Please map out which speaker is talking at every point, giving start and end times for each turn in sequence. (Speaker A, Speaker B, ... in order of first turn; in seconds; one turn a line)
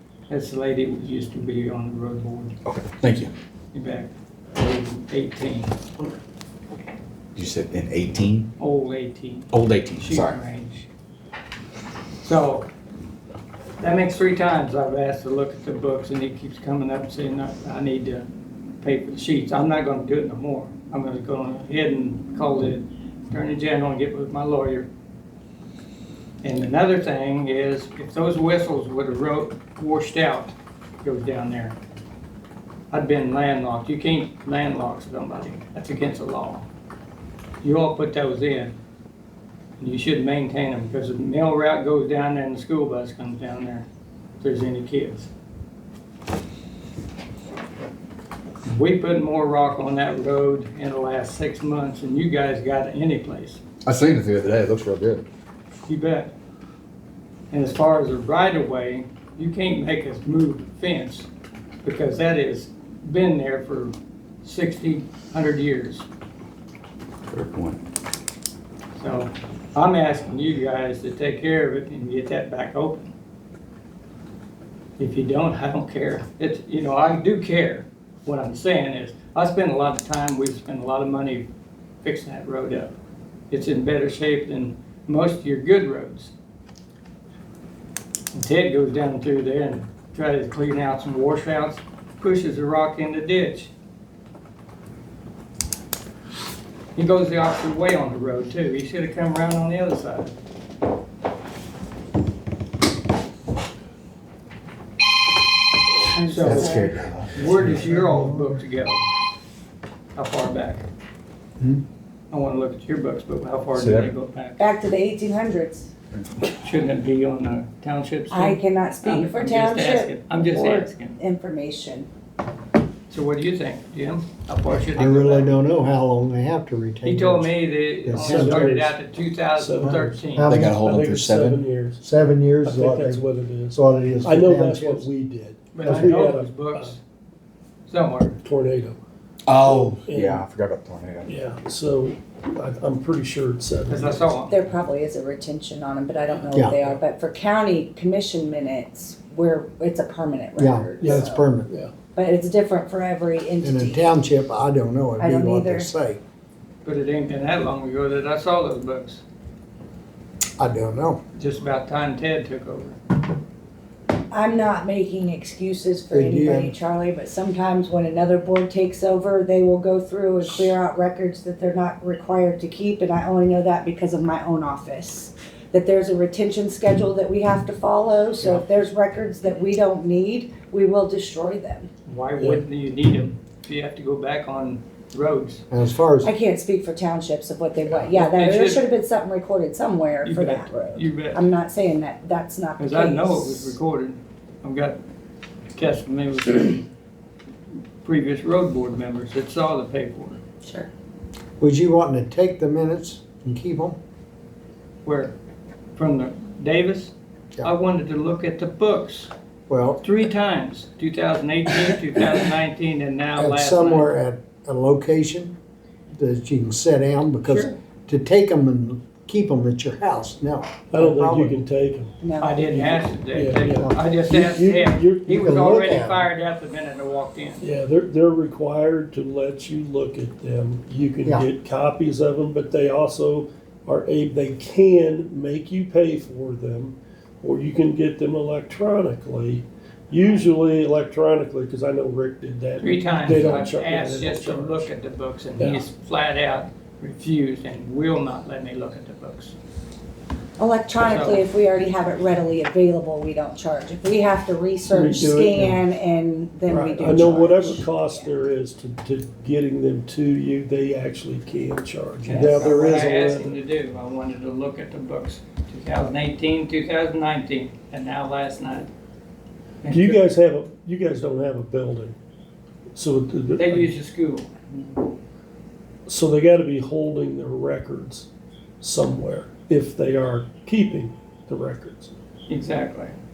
Speaker A: 0.3-2.5
Speaker B: 2.7-3.3
Speaker A: 3.7-5.8
Speaker B: 7.3-8.5
Speaker A: 8.6-10.9
Speaker B: 9.5-10.4
Speaker A: 12.2-12.7
Speaker A: 13.8-18.3
Speaker A: 18.8-24.9
Speaker A: 26.4-31.8
Speaker A: 32.9-36.7
Speaker A: 37.6-38.7
Speaker A: 39.8-43.9
Speaker A: 44.4-45.3
Speaker A: 48.6-53.6
Speaker B: 53.9-55.2
Speaker A: 55.9-56.3
Speaker A: 57.5-61.3
Speaker A: 61.8-66.1
Speaker B: 67.3-67.8
Speaker A: 69.0-73.1
Speaker A: 75.0-81.5
Speaker A: 82.0-83.0
Speaker A: 83.5-86.3
Speaker A: 88.3-93.7
Speaker A: 97.0-100.3
Speaker C: 106.2-106.9
Speaker A: 106.3-106.8
Speaker B: 106.4-107.8
Speaker A: 107.3-109.0
Speaker D: 107.4-108.6
Speaker A: 110.2-110.8
Speaker A: 112.3-114.6
Speaker B: 113.8-114.1
Speaker C: 114.6-115.9
Speaker A: 116.6-121.2
Speaker C: 118.3-122.1
Speaker A: 123.1-125.5
Speaker D: 124.9-127.5
Speaker A: 127.0-130.5
Speaker D: 128.1-128.8
Speaker E: 128.1-129.0
Speaker E: 129.6-136.9
Speaker D: 129.8-130.8
Speaker B: 130.5-131.7
Speaker D: 132.0-135.1
Speaker A: 135.7-137.0
Speaker A: 137.9-138.4
Speaker E: 138.4-139.0
Speaker B: 139.5-141.4
Speaker E: 139.7-140.4
Speaker E: 141.3-144.3
Speaker A: 143.9-144.6
Speaker C: 144.5-151.6
Speaker D: 146.5-146.8
Speaker D: 150.6-151.7
Speaker E: 151.0-151.9
Speaker C: 152.2-154.1
Speaker D: 153.6-156.2
Speaker C: 155.2-155.9
Speaker A: 156.8-159.2
Speaker D: 160.6-161.2
Speaker A: 161.4-163.0
Speaker C: 164.3-181.9
Speaker D: 166.1-166.7
Speaker A: 182.1-185.6
Speaker E: 182.4-182.7
Speaker D: 185.7-186.3
Speaker C: 186.2-193.8
Speaker A: 188.1-188.8
Speaker A: 190.2-191.4
Speaker A: 192.8-195.0
Speaker A: 195.8-196.9
Speaker A: 198.0-200.4
Speaker C: 200.6-200.9
Speaker D: 201.6-204.0
Speaker A: 205.0-205.3
Speaker A: 206.0-207.1
Speaker A: 207.6-209.3
Speaker D: 209.7-210.0
Speaker A: 210.0-214.1
Speaker D: 213.4-215.6
Speaker D: 216.1-221.6
Speaker A: 217.4-217.7
Speaker E: 220.9-226.1
Speaker C: 222.2-222.6
Speaker A: 222.4-227.6
Speaker D: 223.7-224.0
Speaker D: 225.4-226.2
Speaker E: 227.6-244.9
Speaker A: 242.8-249.6
Speaker E: 245.6-245.9
Speaker C: 250.6-258.3
Speaker A: 251.0-251.4
Speaker E: 254.9-255.8
Speaker E: 256.7-263.6
Speaker A: 262.2-268.9
Speaker A: 269.8-270.2
Speaker E: 269.9-272.2
Speaker E: 272.9-273.9
Speaker A: 273.6-275.0
Speaker E: 276.1-278.3
Speaker E: 278.8-282.1
Speaker A: 282.5-283.1